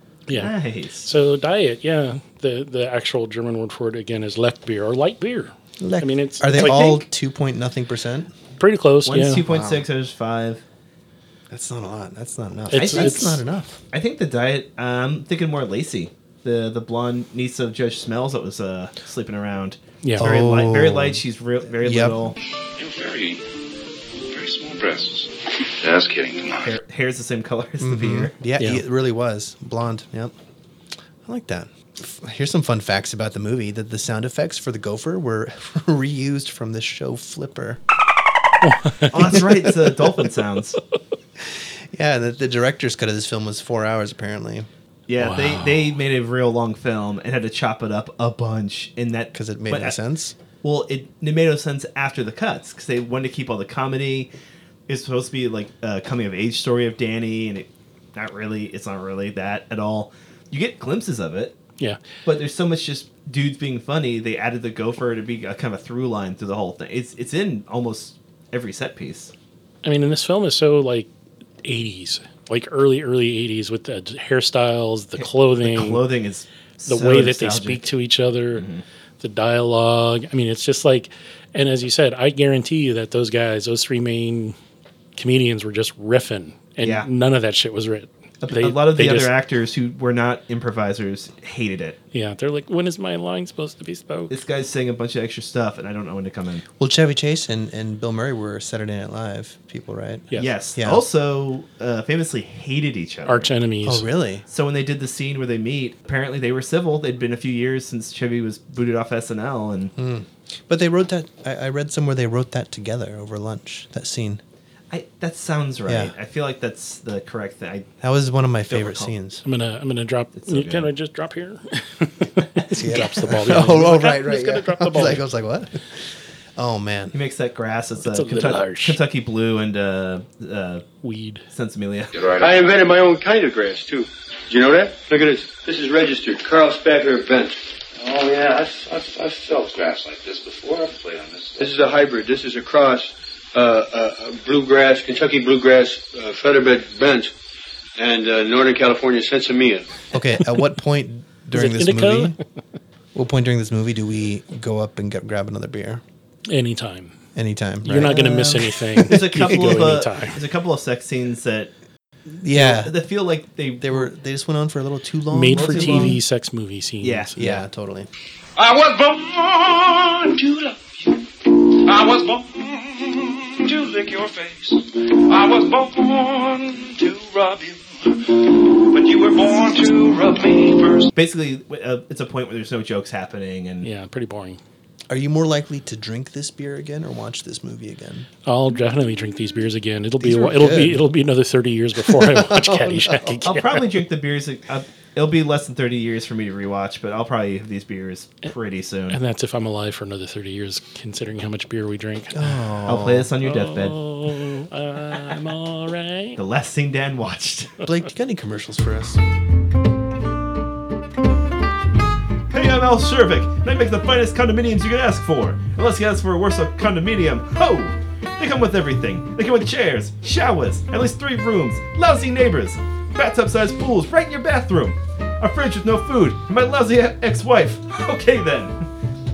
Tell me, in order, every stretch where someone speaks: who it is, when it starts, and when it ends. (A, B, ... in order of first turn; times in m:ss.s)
0:00.3-0:06.6 A
0:00.3-0:01.1 B
0:05.8-0:08.3 C
0:06.5-0:07.1 B
0:08.6-0:09.4 A
0:09.0-0:10.6 B
0:09.4-0:09.8 C
0:11.5-0:13.8 C
0:12.7-0:13.4 A
0:12.7-0:13.4 B
0:13.9-0:22.4 B
0:20.0-0:20.3 A
0:20.2-0:21.2 C
0:21.8-0:22.3 C
0:22.8-0:23.4 D
0:24.3-0:26.8 D
0:26.6-0:28.4 B
0:27.8-0:30.3 C
0:31.2-0:37.8 C
0:38.6-0:39.4 A
0:39.1-0:40.8 B
0:41.4-0:44.7 C
0:45.1-0:50.0 B
0:45.2-0:45.8 A
0:49.3-0:50.3 C
0:50.6-0:54.3 B
0:54.9-1:01.6 B
1:02.2-1:09.3 B
1:09.8-1:11.1 A
1:11.6-1:16.0 A
1:15.2-1:17.9 B
1:16.9-1:18.6 A
1:18.5-1:18.8 B
1:19.2-1:24.6 A
1:25.2-1:29.3 A
1:26.8-1:27.1 B
1:28.4-1:32.0 B
1:32.1-1:34.3 A
1:34.3-1:36.6 B
1:36.8-1:41.0 C
1:40.4-1:43.5 B
1:43.3-1:44.1 A
1:43.8-1:44.4 C
1:44.5-1:49.9 B
1:50.0-1:54.4 C
1:54.9-1:57.9 B
1:55.8-1:56.1 C
1:58.0-1:59.4 C
1:58.7-1:59.1 B
1:59.4-2:05.2 A
2:00.4-2:00.9 B
2:02.7-2:07.2 C
2:07.1-2:10.8 B
2:08.0-2:09.0 A
2:11.0-2:11.4 A
2:11.5-2:12.1 B
2:12.1-2:12.8 D
2:12.4-2:17.6 E
2:18.0-2:21.7 D
2:18.1-2:18.8 E
2:21.6-2:27.3 E
2:28.0-2:29.9 E
2:30.1-2:32.4 C
2:31.5-2:32.4 A
2:33.1-2:36.0 C
2:36.5-2:37.1 A
2:37.3-2:39.9 C
2:37.8-2:40.4 A
2:39.0-2:41.7 B
2:42.3-2:43.0 C
2:42.5-2:44.1 B
2:43.8-2:46.2 C
2:45.3-2:47.4 A
2:45.6-2:46.2 B
2:47.0-2:47.6 B
2:47.4-2:48.1 C
2:48.6-3:01.1 F
3:01.1-3:03.9 B
3:03.8-3:04.6 A
3:05.1-3:08.3 C
3:08.4-3:13.8 A
3:10.2-3:11.0 C
3:12.0-3:13.4 C
3:13.4-3:19.2 B
3:19.1-3:22.6 A
3:22.3-3:23.3 C
3:22.8-3:24.0 B
3:23.4-3:26.4 A
3:26.4-3:27.8 B
3:27.8-3:29.2 C
3:32.5-3:48.9 B